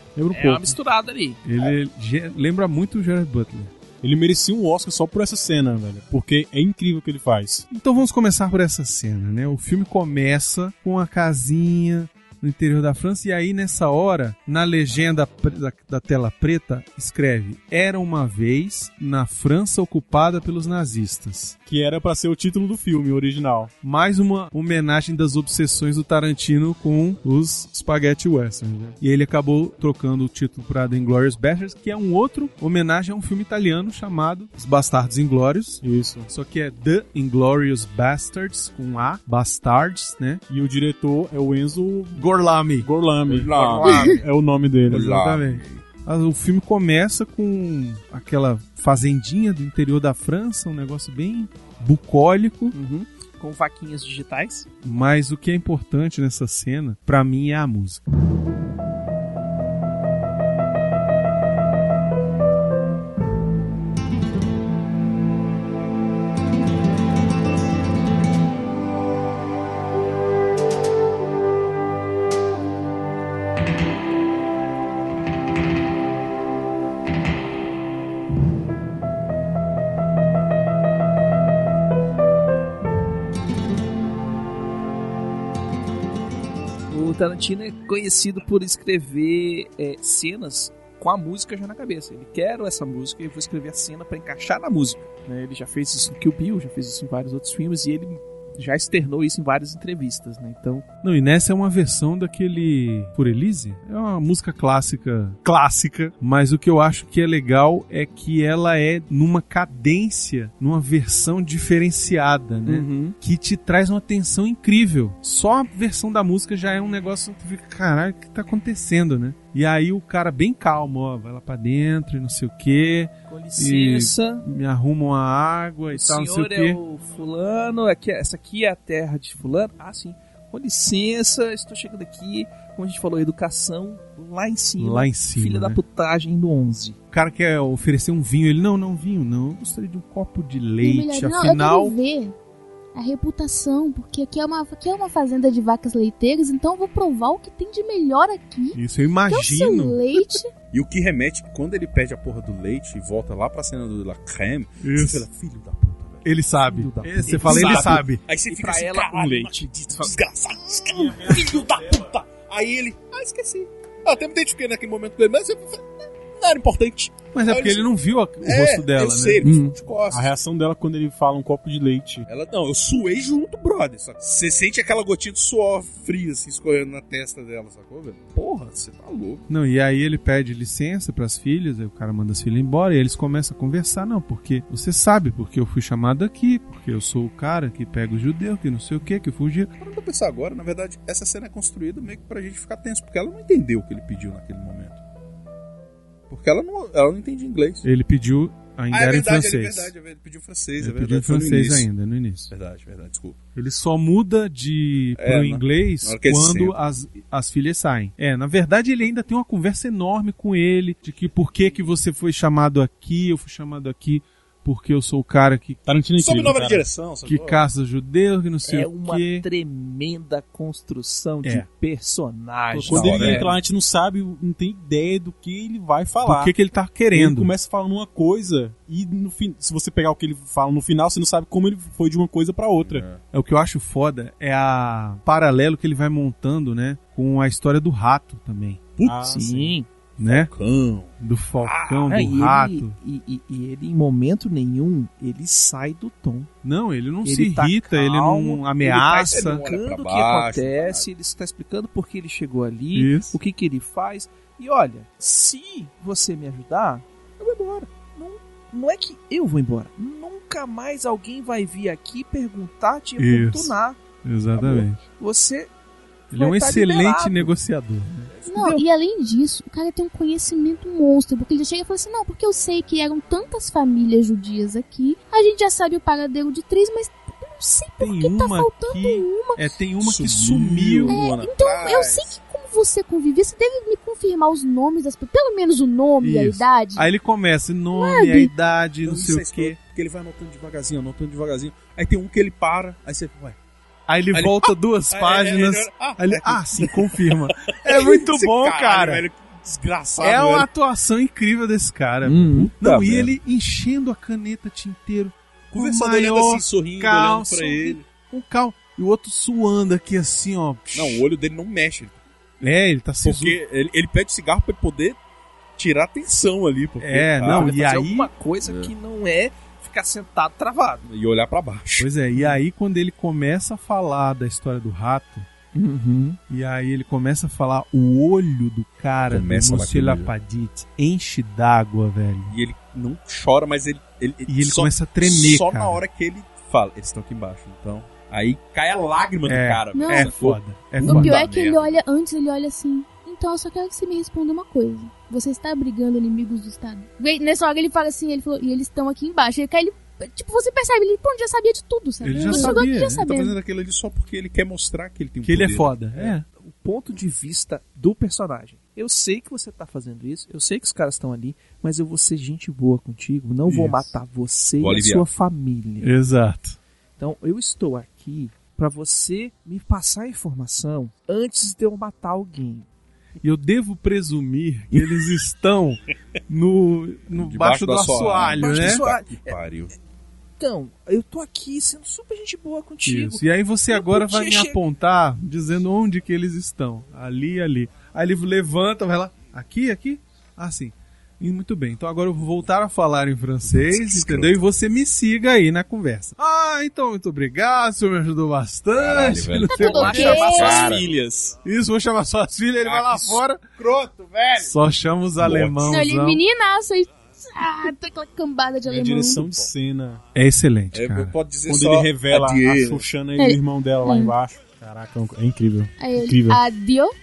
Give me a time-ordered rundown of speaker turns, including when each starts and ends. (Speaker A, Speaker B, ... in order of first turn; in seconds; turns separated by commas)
Speaker A: 0.2-0.8, Speaker B: 0.3-1.4, Speaker C: 1.4-3.7, Speaker A: 4.0-7.7, Speaker C: 7.7-21.6, Speaker A: 21.7-23.7, Speaker C: 23.8-40.4, Speaker A: 35.8-36.3, Speaker A: 40.5-42.3, Speaker C: 42.1-42.9, Speaker A: 42.8-45.1, Speaker D: 43.3-44.2, Speaker B: 43.4-44.2, Speaker E: 43.9-44.2, Speaker D: 44.9-45.8, Speaker C: 44.9-52.8, Speaker B: 52.7-54.7, Speaker C: 54.8-58.0, Speaker B: 86.9-100.8, Speaker C: 101.0-126.8, Speaker B: 112.7-113.2, Speaker B: 123.3-124.5, Speaker B: 125.9-137.0, Speaker C: 134.8-135.8, Speaker C: 137.1-141.9, Speaker E: 140.8-142.3, Speaker E: 142.9-150.5, Speaker C: 148.8-150.1, Speaker D: 150.7-167.9, Speaker C: 154.8-155.3, Speaker C: 156.2-158.2, Speaker B: 157.1-160.2, Speaker A: 161.0-162.0, Speaker C: 167.3-169.4, Speaker D: 168.4-170.3, Speaker B: 169.4-169.7, Speaker A: 170.1-172.3, Speaker D: 172.3-179.5, Speaker C: 179.5-189.7, Speaker D: 189.8-195.0, Speaker D: 196.3-197.8, Speaker C: 197.8-199.9, Speaker D: 198.9-201.9, Speaker C: 200.8-202.5, Speaker D: 202.5-203.4, Speaker C: 203.6-215.8, Speaker D: 205.2-206.8, Speaker A: 215.9-216.8, Speaker D: 216.2-217.7, Speaker C: 217.3-219.5, Speaker B: 218.7-223.5, Speaker C: 222.7-223.4, Speaker A: 222.9-226.5, Speaker D: 222.9-223.5, Speaker C: 226.2-227.5, Speaker A: 227.1-233.1, Speaker D: 232.8-233.2, Speaker C: 233.3-238.9, Speaker D: 239.0-239.6, Speaker A: 239.1-239.4, Speaker B: 239.2-239.9, Speaker C: 240.2-240.5, Speaker D: 240.2-241.1, Speaker C: 241.2-243.0, Speaker D: 241.7-242.0, Speaker B: 242.0-246.5, Speaker C: 246.6-249.6, Speaker B: 247.2-257.1, Speaker D: 249.0-251.1, Speaker C: 252.9-253.4, Speaker D: 257.4-257.8, Speaker B: 257.6-264.0, Speaker C: 263.2-265.0, Speaker B: 264.6-265.7, Speaker C: 266.3-268.3, Speaker B: 266.3-267.5, Speaker B: 268.4-268.8, Speaker E: 268.5-279.6, Speaker C: 278.0-281.2, Speaker D: 280.0-282.4, Speaker E: 281.1-287.1, Speaker C: 286.2-289.8, Speaker E: 287.9-288.5, Speaker D: 289.1-293.6, Speaker C: 294.1-299.2, Speaker D: 294.3-300.7, Speaker C: 300.2-311.2, Speaker B: 302.2-302.7, Speaker D: 302.8-303.4, Speaker D: 305.7-308.1, Speaker D: 310.9-312.2, Speaker C: 312.6-313.6, Speaker D: 313.2-315.2, Speaker D: 315.8-317.8, Speaker C: 317.0-318.3, Speaker B: 317.4-321.1, Speaker D: 318.6-318.9, Speaker D: 321.1-322.1, Speaker C: 322.0-325.5, Speaker B: 325.7-326.4, Speaker C: 326.5-332.6, Speaker D: 329.3-330.3, Speaker D: 332.5-342.0, Speaker C: 334.5-336.0, Speaker C: 339.5-341.4, Speaker E: 339.9-340.3, Speaker E: 341.0-353.6, Speaker C: 352.2-353.2, Speaker D: 352.3-356.3, Speaker C: 355.4-356.4, Speaker B: 356.5-366.1, Speaker C: 363.7-364.1, Speaker D: 364.8-365.3, Speaker C: 366.0-366.8, Speaker B: 367.2-372.9, Speaker C: 373.4-379.0, Speaker D: 374.9-375.2, Speaker D: 377.4-379.9, Speaker B: 378.4-379.6, Speaker B: 380.6-384.8, Speaker C: 383.1-400.3, Speaker D: 393.7-394.6, Speaker D: 399.0-401.6, Speaker E: 399.6-401.0, Speaker B: 399.8-401.1, Speaker C: 401.6-403.6, Speaker D: 402.8-404.7, Speaker C: 404.6-406.4, Speaker D: 405.4-406.0, Speaker E: 405.9-409.4, Speaker A: 408.9-410.2, Speaker D: 409.4-409.7, Speaker C: 410.4-411.4, Speaker D: 410.9-413.1, Speaker A: 411.7-416.6, Speaker E: 413.4-414.3, Speaker E: 416.0-417.1